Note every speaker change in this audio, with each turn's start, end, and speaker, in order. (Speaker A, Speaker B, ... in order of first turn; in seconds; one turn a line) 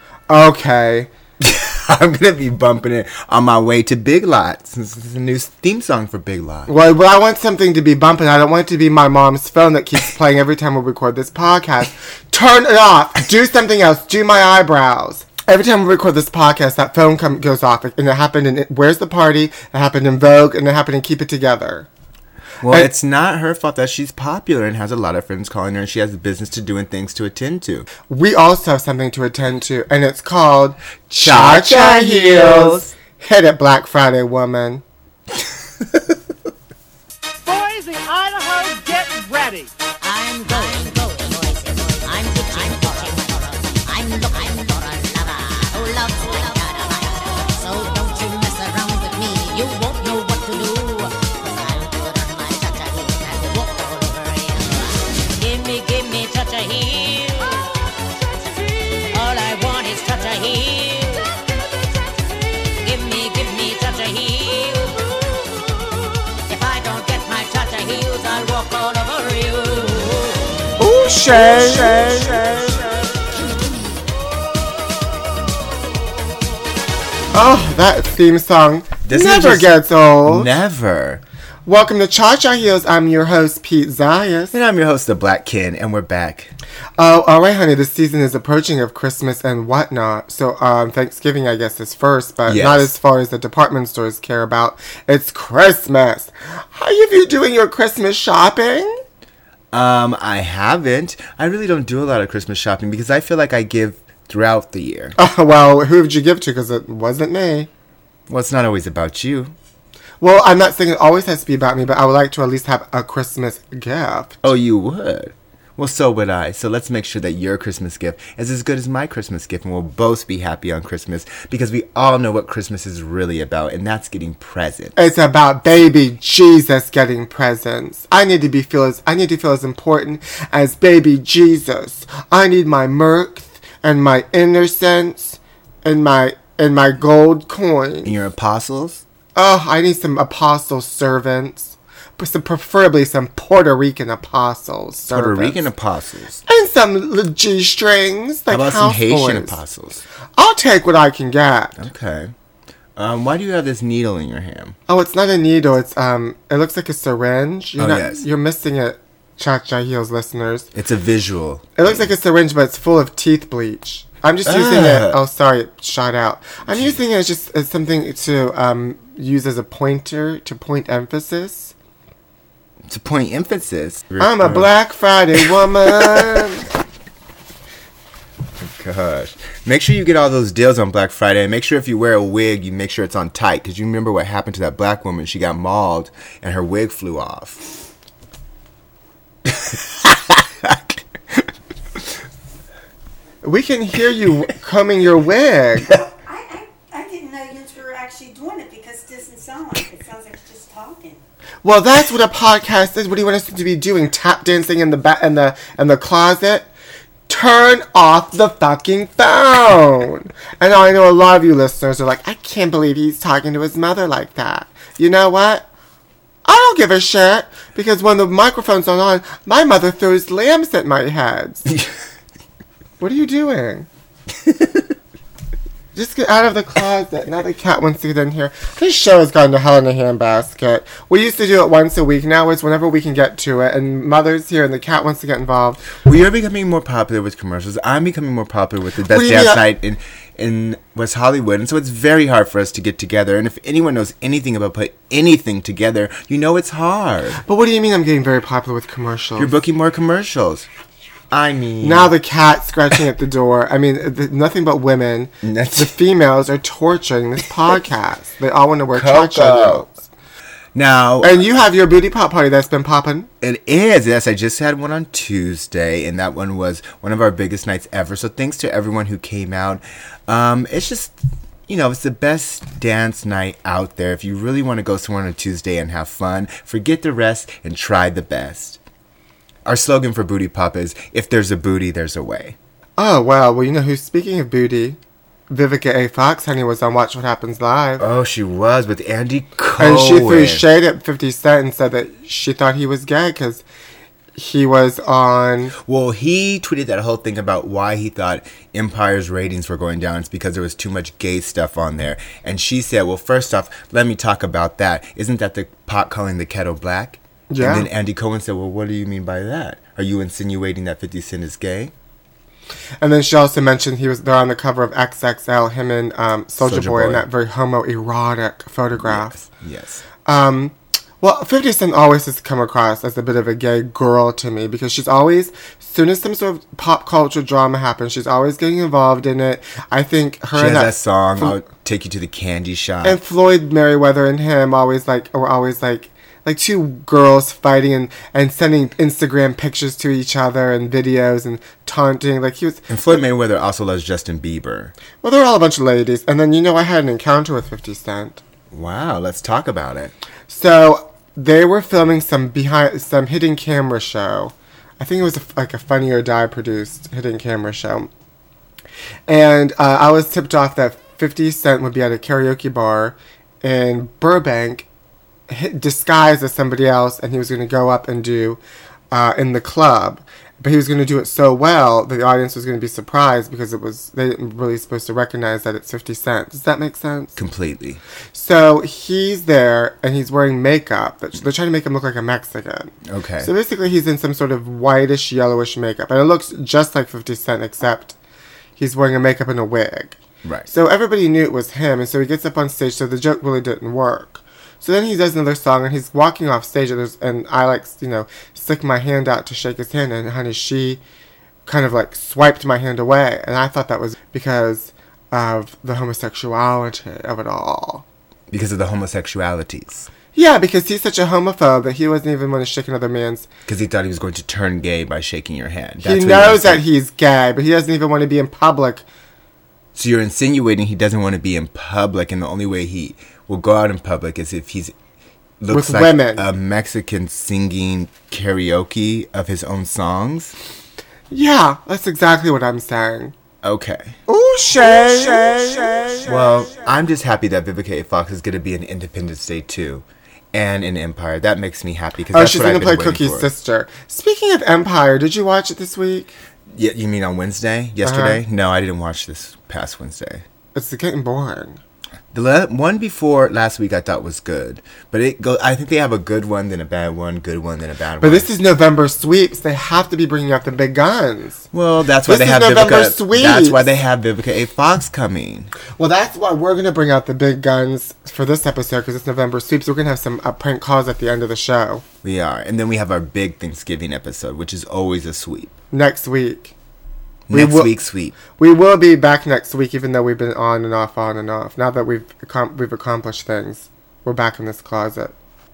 Speaker A: 0.3-1.1
Speaker B: 1.4-6.7
Speaker A: 6.7-21.9
Speaker B: 22.6-27.9
Speaker A: 28.1-34.8
Speaker B: 31.1-32.9
Speaker C: 37.4-39.7
Speaker D: 40.0-57.8
Speaker D: 59.0-61.3
Speaker D: 62.8-65.2
Speaker D: 66.5-70.5
Speaker A: 70.8-72.6
Speaker B: 71.5-72.7
Speaker A: 77.3-80.5
Speaker B: 79.0-81.2
Speaker A: 81.7-84.5
Speaker B: 84.5-86.5
Speaker A: 87.0-99.0
Speaker B: 92.5-92.9
Speaker B: 99.7-105.2
Speaker A: 105.2-107.7
Speaker B: 108.3-109.5
Speaker A: 110.2-114.4
Speaker B: 114.4-124.9
Speaker A: 125.0-138.1
Speaker B: 138.0-139.0
Speaker A: 139.3-145.6
Speaker B: 145.1-146.4
Speaker A: 146.5-149.6
Speaker B: 148.5-150.0
Speaker A: 150.4-151.8
Speaker B: 151.8-152.3
Speaker B: 152.9-154.8
Speaker A: 154.9-160.7
Speaker B: 157.8-158.2
Speaker B: 160.7-162.1
Speaker A: 161.8-171.7
Speaker B: 164.4-165.2
Speaker B: 166.7-167.0
Speaker B: 172.8-174.7
Speaker A: 174.2-176.7
Speaker B: 175.3-176.4
Speaker B: 178.6-187.6
Speaker B: 189.5-190.9
Speaker A: 193.4-196.0
Speaker E: 196.2-201.2
Speaker A: 201.6-206.7
Speaker A: 207.3-215.7
Speaker A: 216.4-221.7
Speaker A: 223.0-223.9
Speaker A: 225.9-235.9
Speaker B: 236.0-247.4
Speaker A: 239.1-239.6
Speaker A: 247.4-249.5
Speaker B: 249.4-250.7
Speaker B: 251.3-252.1
Speaker A: 251.8-260.0
Speaker B: 255.4-255.9
Speaker B: 258.9-259.9
Speaker B: 260.7-261.4
Speaker A: 261.2-263.3
Speaker B: 263.4-271.1
Speaker B: 271.7-278.8
Speaker B: 279.6-282.6
Speaker A: 283.0-285.0
Speaker A: 285.5-288.0
Speaker B: 288.0-290.6
Speaker A: 289.8-293.6
Speaker A: 294.3-295.7
Speaker B: 295.8-311.9
Speaker A: 307.5-307.9
Speaker A: 313.0-319.4
Speaker B: 316.6-317.3
Speaker B: 319.0-320.0
Speaker A: 320.2-331.6
Speaker B: 330.5-333.2
Speaker A: 333.0-342.9
Speaker B: 342.9-344.9
Speaker A: 345.2-348.4
Speaker B: 348.7-350.1
Speaker A: 350.5-358.1
Speaker A: 359.3-364.9
Speaker A: 365.5-368.6
Speaker A: 369.1-377.4
Speaker B: 377.4-378.0
Speaker A: 378.3-388.1
Speaker B: 383.1-383.5
Speaker A: 388.8-390.2
Speaker B: 390.4-390.7
Speaker A: 390.7-401.0
Speaker A: 401.6-408.0
Speaker B: 408.5-410.1
Speaker A: 410.3-413.5
Speaker B: 413.6-416.8
Speaker A: 416.0-419.0
Speaker B: 419.9-424.9
Speaker B: 425.6-430.5
Speaker A: 425.7-426.4
Speaker A: 431.3-433.3
Speaker B: 433.6-434.2
Speaker A: 434.3-436.4
Speaker B: 435.1-435.5
Speaker B: 436.2-443.5
Speaker A: 442.3-446.3
Speaker B: 446.7-450.4
Speaker A: 448.0-448.4
Speaker A: 450.7-451.8
Speaker B: 452.3-458.5
Speaker A: 458.2-461.6
Speaker B: 461.7-465.7
Speaker A: 462.2-463.8
Speaker A: 466.0-472.0
Speaker B: 472.2-475.7
Speaker A: 475.9-476.7
Speaker B: 477.5-478.4
Speaker A: 477.5-477.9
Speaker A: 478.4-485.3